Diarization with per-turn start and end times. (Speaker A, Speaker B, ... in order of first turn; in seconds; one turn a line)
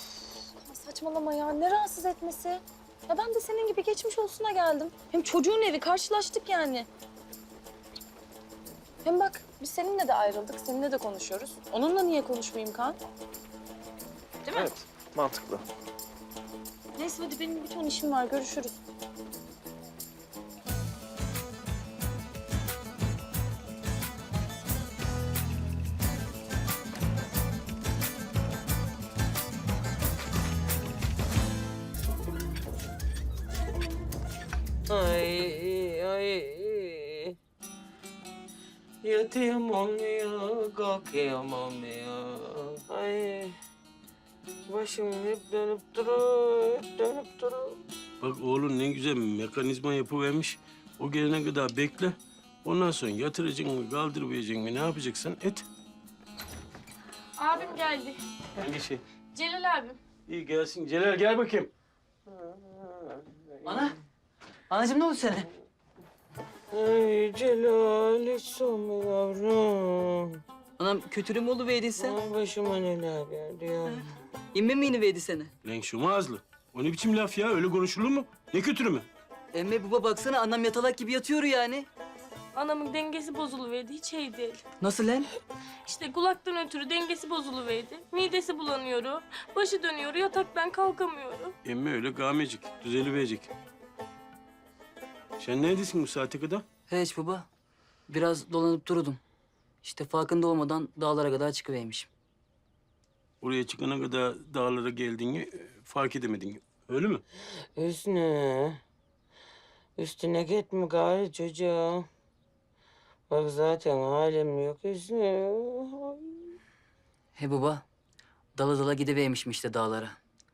Speaker A: 0.6-6.9
Speaker A: 9.0-13.0
Speaker A: 14.5-14.7
Speaker A: 17.0-18.8
Speaker B: 34.9-37.4
Speaker B: 39.0-43.6
Speaker B: 44.7-47.8
Speaker C: 48.2-55.6
Speaker D: 57.4-58.2
Speaker C: 58.6-59.0
Speaker D: 59.3-60.0
Speaker C: 60.3-61.7
Speaker B: 63.6-63.9
Speaker E: 64.7-65.5
Speaker B: 66.7-70.4
Speaker E: 70.8-72.2
Speaker B: 72.0-74.0
Speaker E: 74.5-75.5
Speaker C: 75.7-79.1
Speaker E: 79.5-81.9
Speaker D: 82.5-84.6
Speaker E: 84.8-85.3
Speaker D: 85.9-91.5
Speaker C: 91.7-93.5
Speaker C: 95.4-96.7
Speaker E: 96.9-97.5
Speaker E: 98.1-99.2
Speaker E: 99.8-102.1
Speaker C: 103.4-107.2
Speaker B: 107.8-108.8
Speaker B: 110.0-112.1
Speaker B: 113.3-116.5
Speaker E: 117.3-117.8
Speaker E: 118.5-120.2